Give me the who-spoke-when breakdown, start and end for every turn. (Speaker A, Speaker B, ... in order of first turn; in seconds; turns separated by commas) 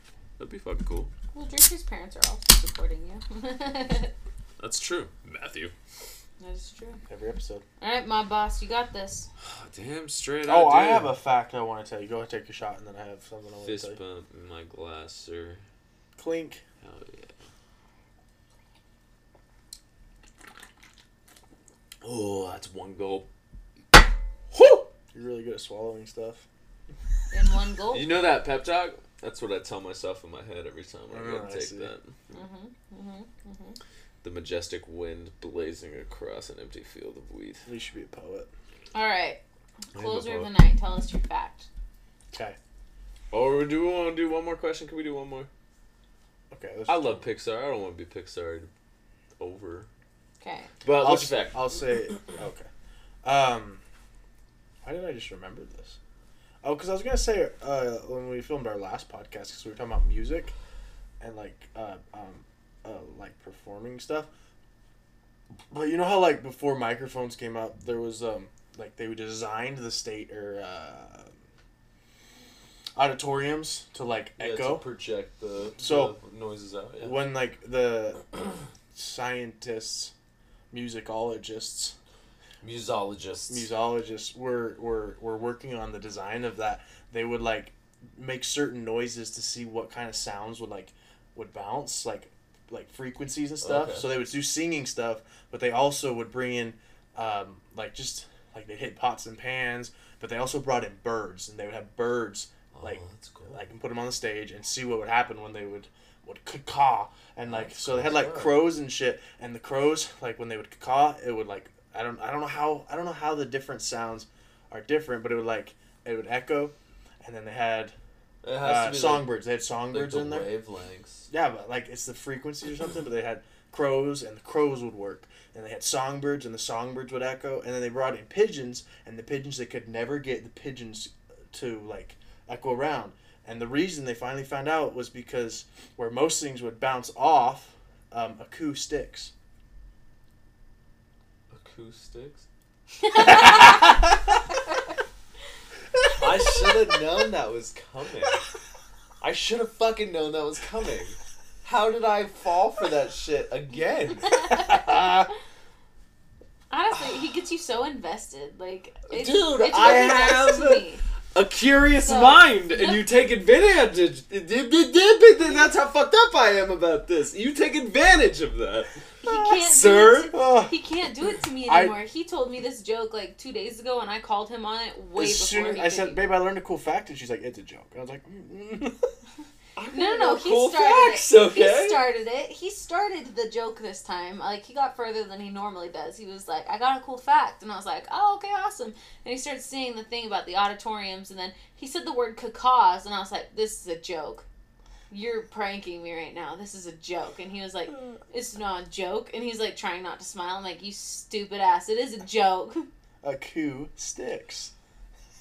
Speaker A: 0.4-1.1, Speaker B: 1.3-4.1, Speaker A: 4.6-5.7, Speaker B: 6.4-7.0, Speaker C: 7.1-7.6, Speaker B: 7.8-9.3, Speaker A: 9.4-11.2, Speaker C: 10.4-14.0, Speaker A: 13.6-15.6, Speaker C: 16.2-16.6, Speaker A: 16.8-17.4, Speaker A: 22.0-23.3, Speaker C: 24.6-26.4, Speaker B: 27.3-28.1, Speaker A: 27.9-32.4, Speaker C: 31.1-31.9, Speaker B: 32.3-33.8, Speaker A: 34.2-37.7, Speaker C: 37.7-38.5, Speaker B: 38.9-41.7, Speaker A: 39.9-40.5, Speaker C: 42.3-42.6, Speaker A: 43.3-45.5, Speaker C: 46.5-47.2, Speaker A: 46.9-48.7, Speaker A: 49.4-49.9, Speaker B: 50.4-50.7, Speaker A: 50.8-51.7, Speaker C: 51.0-52.7, Speaker C: 53.2-53.8, Speaker C: 54.8-56.0, Speaker C: 56.6-60.5, Speaker C: 61.2-64.3, Speaker C: 65.7-71.3, Speaker C: 73.0-74.8, Speaker A: 74.4-77.2, Speaker C: 75.8-76.2, Speaker C: 77.0-80.1, Speaker C: 80.7-82.0, Speaker A: 82.6-83.7, Speaker C: 83.5-118.0, Speaker A: 93.6-94.1, Speaker A: 102.7-103.7, Speaker A: 107.5-108.7, Speaker A: 118.4-119.4, Speaker C: 118.6-120.5, Speaker A: 119.9-121.3, Speaker C: 121.3-139.3, Speaker A: 141.5-142.4, Speaker B: 143.1-143.7, Speaker A: 146.2-148.4, Speaker A: 149.2-154.8, Speaker B: 154.4-155.2, Speaker B: 156.7-161.0, Speaker A: 159.1-170.4, Speaker B: 162.0-163.0, Speaker B: 169.2-176.4, Speaker C: 170.3-170.8, Speaker C: 171.7-172.0, Speaker C: 175.2-179.1, Speaker A: 179.8-182.1, Speaker B: 179.9-194.4, Speaker B: 195.1-202.9, Speaker C: 203.2-204.7